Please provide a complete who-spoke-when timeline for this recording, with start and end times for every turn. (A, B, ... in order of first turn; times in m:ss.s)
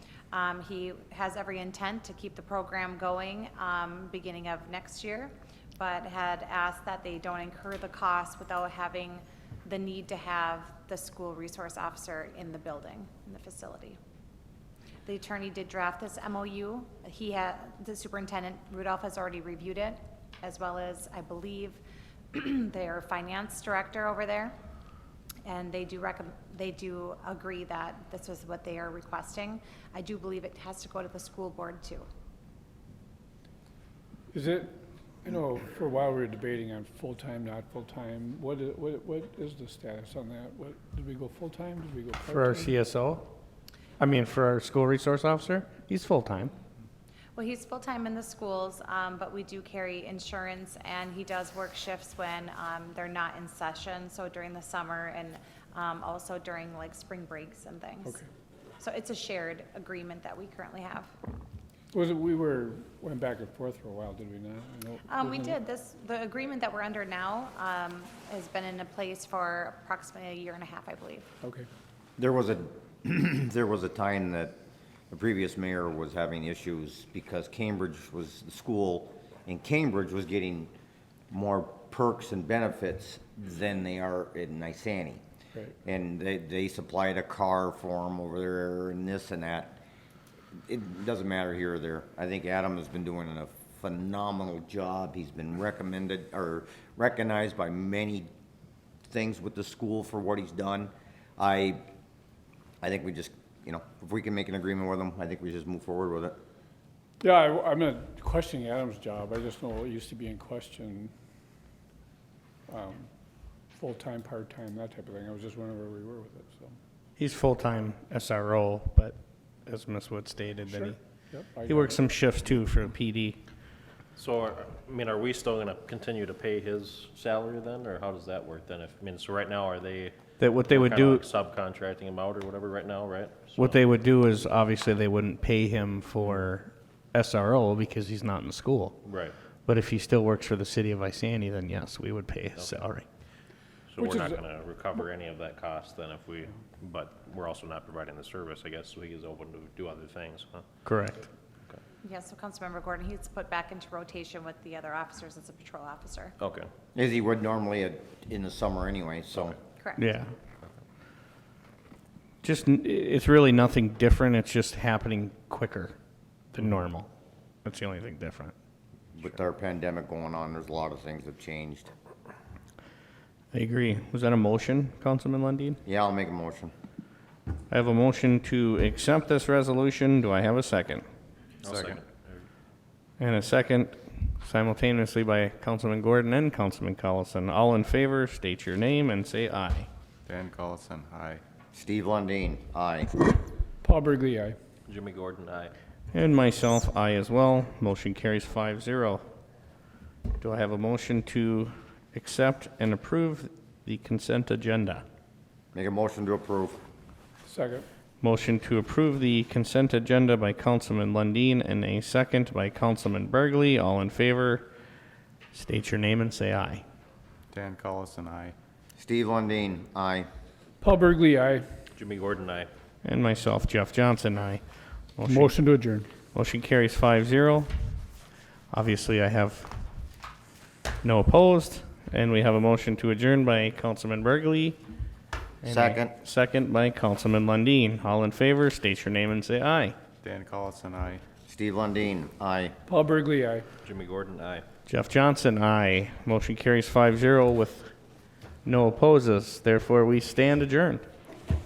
0:00.3-0:14.0 A
0:15.1-0:21.8 A
0:22.3-0:24.6 A
0:25.4-0:32.1 A
0:34.3-0:42.7 B
0:42.3-0:43.3 C
0:44.0-0:46.5 C
0:47.4-0:58.2 A
0:58.8-1:01.1 A
1:01.9-1:05.6 B
1:05.1-1:11.3 A
1:11.4-1:11.7 B
1:12.2-1:14.6 D
1:15.1-1:20.7 D
1:21.3-1:25.2 D
1:25.8-1:29.8 D
1:30.7-1:38.3 D
1:39.1-1:41.8 D
1:42.8-1:46.4 D
1:47.2-1:51.1 B
1:52.7-1:53.1 B
1:53.7-1:56.8 B
1:57.2-2:01.0 C
2:00.7-2:02.1 B
2:01.7-2:03.4 C
2:04.2-2:13.8 E
2:10.4-2:11.2 C
2:13.6-2:19.0 C
2:19.0-2:19.3 E
2:19.7-2:23.0 C
2:22.6-2:22.9 E
2:23.9-2:30.6 E
2:24.0-2:24.4 B
2:30.8-2:31.3 C
2:32.0-2:36.4 A
2:36.4-2:36.7 E
2:37.0-2:39.6 D
2:39.8-2:40.1 A
2:40.0-2:40.3 C
2:42.4-2:46.0 C
2:46.5-2:47.1 C
2:47.6-2:48.5 C
2:49.2-2:51.9 D
2:53.5-2:55.8 C
2:55.9-2:56.7 D
2:57.7-3:01.0 C
3:01.6-3:02.4 E
3:01.6-3:02.0 F
3:03.2-3:09.9 C
3:10.3-3:11.4 F
3:11.7-3:13.2 D
3:13.8-3:14.6 B
3:14.9-3:15.7 E
3:16.1-3:19.2 C
3:20.4-3:25.0 C
3:25.7-3:26.8 D
3:27.4-3:27.9 B
3:28.2-3:34.7 C
3:35.5-3:36.8 C
3:37.5-3:38.6 F
3:39.0-3:40.3 D
3:40.8-3:41.7 B
3:42.0-3:42.7 E
3:43.0-3:44.6 C
3:45.2-3:45.6 C
3:45.3-3:46.1 B
3:46.3-3:47.7 C
3:48.7-3:49.8 C
3:51.0-3:54.8 C
3:55.6-4:00.0 C
3:55.7-3:56.2 D
4:00.2-4:01.2 F
4:01.5-4:02.8 D
4:02.9-4:03.7 B
4:03.8-4:04.6 E
4:04.9-4:07.9 C
4:08.6-4:11.0 C